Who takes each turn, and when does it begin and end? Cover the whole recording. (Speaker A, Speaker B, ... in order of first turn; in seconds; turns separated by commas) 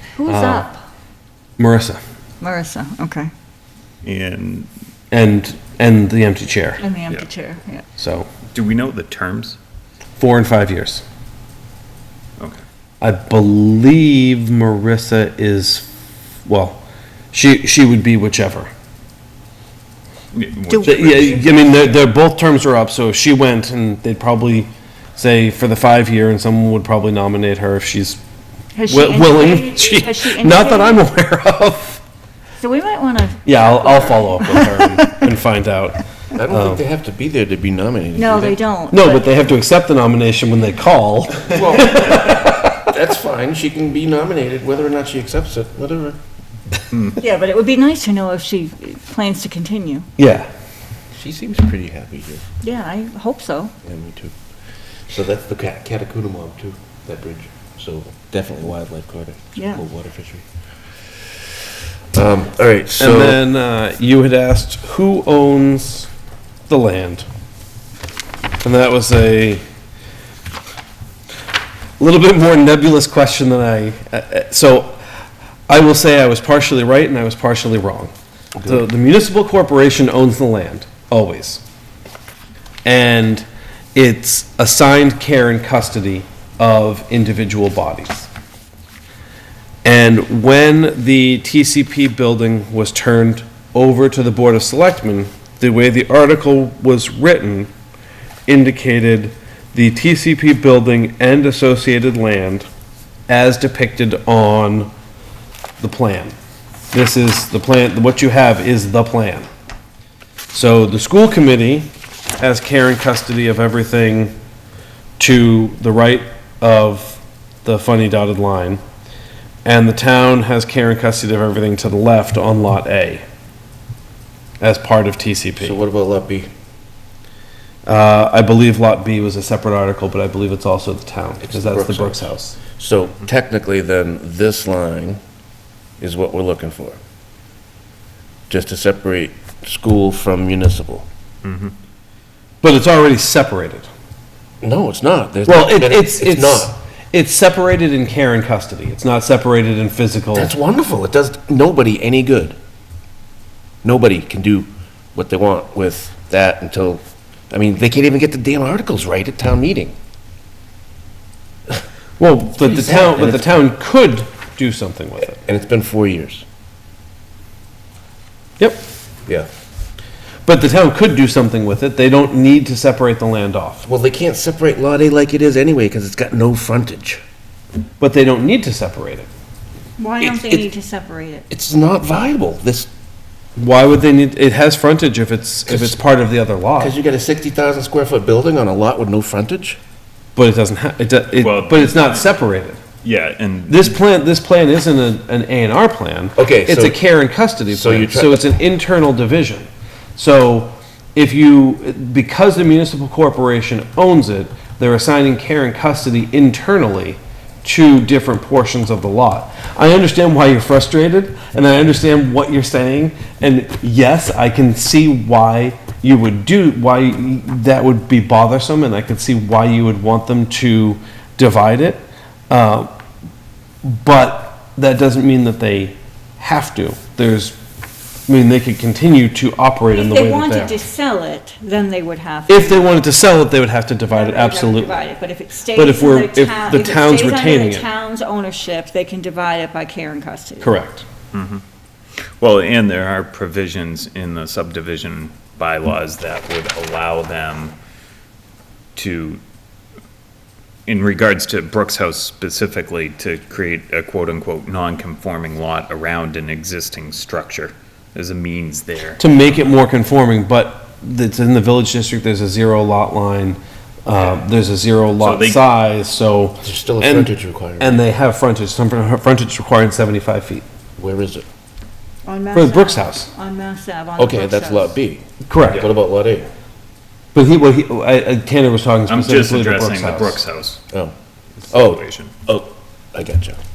Speaker A: 0.2-0.8, Speaker B: 0.3-0.7, Speaker B: 1.6-2.0, Speaker A: 2.4-3.3, Speaker C: 4.0-4.7, Speaker B: 5.1-6.8, Speaker A: 6.8-7.9, Speaker B: 8.0-8.3, Speaker C: 8.5-9.6, Speaker B: 10.2-11.0, Speaker B: 13.0-15.9, Speaker B: 16.5-16.8, Speaker B: 17.3-18.7, Speaker C: 20.3-21.5, Speaker A: 20.7-21.5, Speaker B: 20.9-28.2, Speaker A: 28.7-31.0, Speaker B: 28.9-32.0, Speaker A: 32.6-35.3, Speaker B: 33.5-36.8, Speaker D: 36.3-38.6, Speaker A: 38.2-39.4, Speaker B: 38.9-42.8, Speaker D: 41.5-46.2, Speaker A: 47.2-50.1, Speaker B: 50.2-50.5, Speaker D: 51.1-52.5, Speaker A: 52.6-53.7, Speaker D: 53.8-54.4, Speaker D: 55.1-60.5, Speaker A: 59.5-59.8, Speaker D: 61.2-61.5, Speaker D: 62.1-63.4, Speaker B: 63.0-66.1, Speaker B: 66.7-67.2, Speaker B: 68.6-69.6, Speaker B: 72.0-75.0, Speaker B: 75.7-78.1, Speaker B: 78.6-81.6, Speaker B: 82.8-88.3, Speaker B: 89.8-97.7, Speaker B: 98.5-102.7, Speaker B: 103.3-104.9, Speaker B: 105.8-106.3, Speaker B: 106.9-109.5, Speaker B: 110.5-114.3, Speaker B: 115.2-118.8, Speaker B: 119.7-123.2, Speaker B: 124.6-125.8, Speaker D: 125.6-126.5, Speaker B: 127.9-132.6, Speaker D: 131.4-135.2, Speaker D: 136.0-137.0, Speaker D: 138.5-141.1, Speaker C: 141.4-141.7, Speaker B: 142.6-143.9, Speaker D: 144.6-146.7, Speaker B: 145.5-150.5, Speaker D: 150.3-152.6, Speaker D: 153.8-160.0, Speaker B: 162.2-165.4, Speaker D: 162.6-163.5, Speaker D: 165.3-166.4, Speaker B: 170.5-173.9, Speaker D: 173.8-177.2, Speaker B: 178.0-179.3, Speaker A: 180.0-181.5, Speaker D: 180.2-180.7, Speaker D: 181.5-182.9, Speaker B: 183.6-186.9, Speaker D: 185.7-186.0, Speaker D: 186.8-189.8, Speaker B: 190.4-192.8, Speaker C: 191.3-192.4, Speaker C: 193.0-194.0, Speaker B: 193.7-222.9, Speaker D: 196.4-197.0, Speaker D: 197.7-198.4, Speaker B: 223.8-227.6, Speaker B: 228.3-230.8, Speaker A: 229.9-233.0, Speaker B: 232.5-235.0, Speaker A: 234.1-240.8, Speaker B: 235.7-237.9, Speaker B: 240.6-241.1, Speaker C: 241.3-241.6, Speaker C: 242.4-247.8, Speaker C: 249.0-249.4, Speaker C: 250.9-259.2, Speaker B: 259.2-270.6, Speaker C: 265.2-265.6, Speaker D: 266.6-268.0, Speaker D: 271.0-271.4, Speaker A: 272.2-275.0, Speaker B: 272.5-273.3, Speaker D: 274.2-276.5, Speaker B: 275.4-275.9, Speaker B: 277.3-280.4, Speaker C: 279.1-280.8, Speaker C: 281.6-282.3, Speaker D: 281.7-283.6